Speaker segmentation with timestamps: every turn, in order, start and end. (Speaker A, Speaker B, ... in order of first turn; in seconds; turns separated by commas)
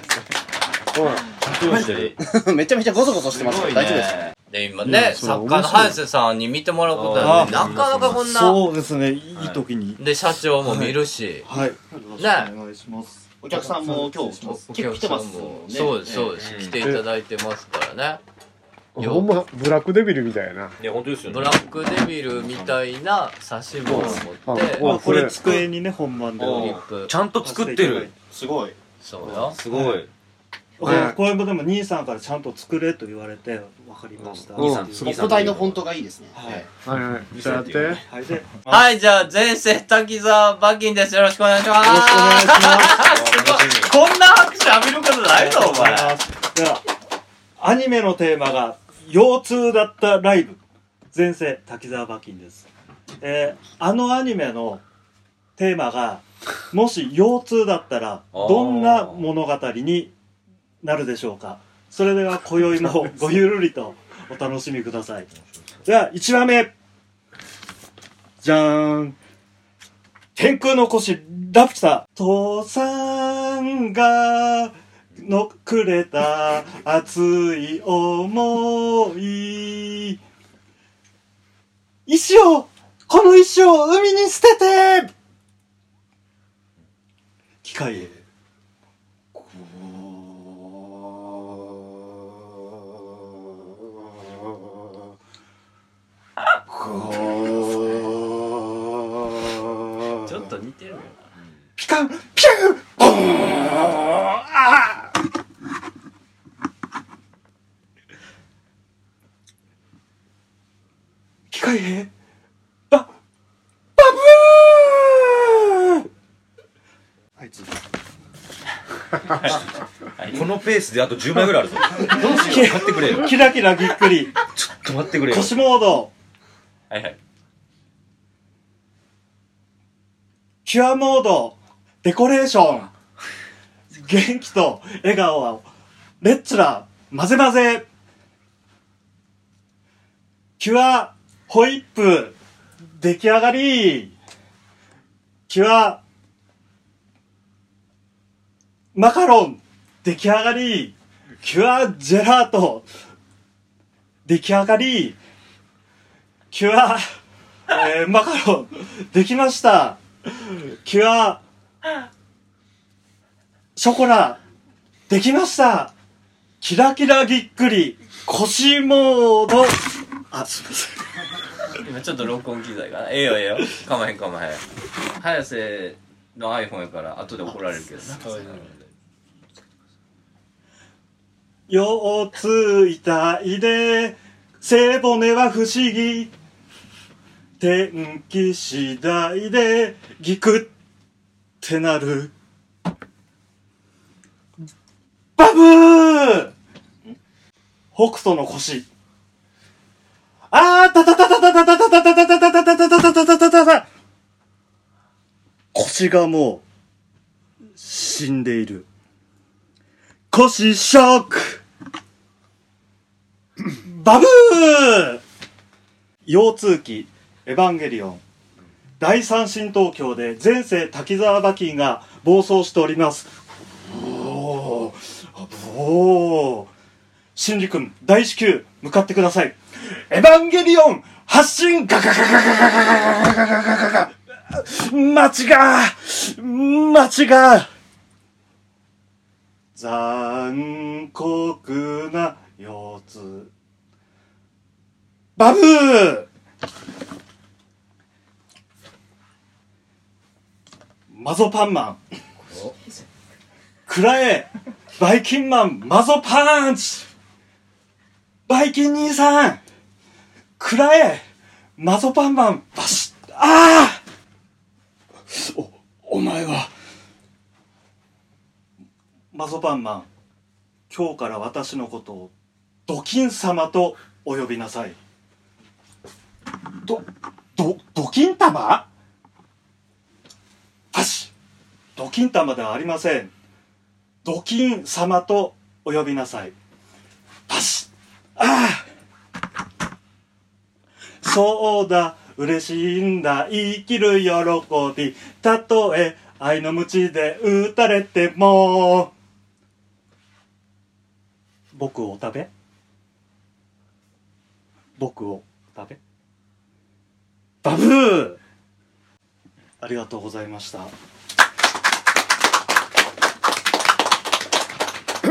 Speaker A: 0.9-1.9, Speaker B: 1.4-2.2, Speaker C: 1.7-2.1, Speaker D: 2.2-4.3, Speaker C: 3.3-8.2, Speaker A: 4.8-6.0, Speaker B: 6.9-8.6, Speaker E: 7.2-10.0, Speaker B: 9.3-9.6, Speaker C: 10.0-11.5, Speaker E: 10.6-14.4, Speaker C: 12.2-12.5, Speaker D: 13.4-16.5, Speaker C: 14.4-18.2, Speaker B: 16.4-16.8, Speaker A: 18.9-20.8, Speaker C: 19.0-19.3, Speaker B: 20.8-21.7, Speaker C: 21.3-24.9, Speaker B: 22.3-22.8, Speaker A: 23.8-25.4, Speaker E: 23.9-24.2, Speaker E: 24.8-26.9, Speaker C: 26.4-27.1, Speaker B: 27.1-28.1, Speaker E: 27.4-28.1, Speaker D: 28.3-28.8, Speaker C: 29.0-29.6, Speaker B: 29.4-30.1, Speaker E: 29.7-30.0, Speaker E: 30.8-35.1, Speaker A: 30.8-31.2, Speaker A: 34.5-35.3, Speaker B: 34.5-35.8, Speaker D: 34.9-36.7, Speaker E: 36.3-36.6, Speaker A: 36.8-38.0, Speaker C: 37.3-38.0, Speaker E: 38.1-38.9, Speaker C: 38.7-46.2, Speaker E: 41.7-43.2, Speaker B: 43.1-43.9, Speaker E: 45.3-46.8, Speaker E: 47.6-50.6, Speaker E: 51.1-52.7, Speaker E: 53.2-54.8, Speaker E: 55.5-60.1, Speaker B: 58.3-59.3, Speaker E: 60.8-65.3, Speaker E: 65.8-66.7, Speaker E: 68.4-69.2, Speaker E: 70.3-80.2, Speaker E: 82.1-85.1, Speaker E: 87.6-88.2, Speaker E: 89.3-90.6, Speaker E: 96.6-98.5, Speaker C: 100.2-101.2, Speaker E: 101.8-105.1, Speaker E: 111.5-112.1, Speaker E: 114.0-116.0, Speaker E: 117.4-117.7, Speaker C: 119.3-119.6, Speaker C: 120.2-120.4, Speaker B: 120.3-123.4, Speaker E: 121.9-124.4, Speaker C: 122.2-122.6, Speaker B: 124.5-125.5, Speaker E: 125.2-126.1, Speaker C: 126.9-127.2, Speaker E: 130.6-132.9, Speaker E: 133.9-135.7, Speaker E: 136.2-137.9, Speaker E: 140.6-142.4, Speaker E: 143.0-144.1, Speaker E: 145.5-146.0, Speaker E: 148.9-152.9, Speaker E: 154.2-155.2, Speaker E: 156.5-157.0, Speaker E: 157.7-161.4, Speaker E: 163.8-164.4, Speaker E: 165.1-165.9, Speaker E: 166.6-169.8, Speaker E: 170.3-171.0, Speaker C: 171.8-174.6, Speaker C: 175.2-178.7, Speaker B: 178.2-178.7, Speaker E: 181.7-186.3, Speaker E: 187.6-190.7, Speaker E: 191.6-192.3, Speaker E: 195.4-196.5, Speaker E: 197.9-198.9, Speaker E: 200.5-203.9, Speaker E: 205.7-206.6, Speaker E: 207.8-208.9, Speaker E: 210.3-211.6, Speaker E: 213.8-215.2, Speaker E: 216.2-218.2, Speaker E: 219.0-223.3, Speaker E: 223.9-226.7, Speaker E: 227.3-229.6, Speaker E: 230.1-237.7, Speaker E: 239.7-243.5, Speaker E: 245.4-246.3, Speaker E: 251.1-252.0, Speaker E: 253.9-257.1, Speaker E: 258.5-259.6, Speaker E: 260.6-261.2, Speaker E: 261.8-264.0, Speaker E: 265.3-266.7, Speaker E: 269.3-270.1, Speaker E: 270.9-272.3, Speaker E: 272.9-275.0, Speaker E: 277.6-278.9, Speaker E: 280.9-281.3, Speaker E: 281.9-283.3, Speaker E: 284.2-286.5, Speaker E: 287.5-288.9, Speaker E: 291.2-299.1, Speaker E: 301.7-302.5, Speaker E: 305.0-306.0, Speaker E: 307.6-308.4, Speaker E: 309.8-310.9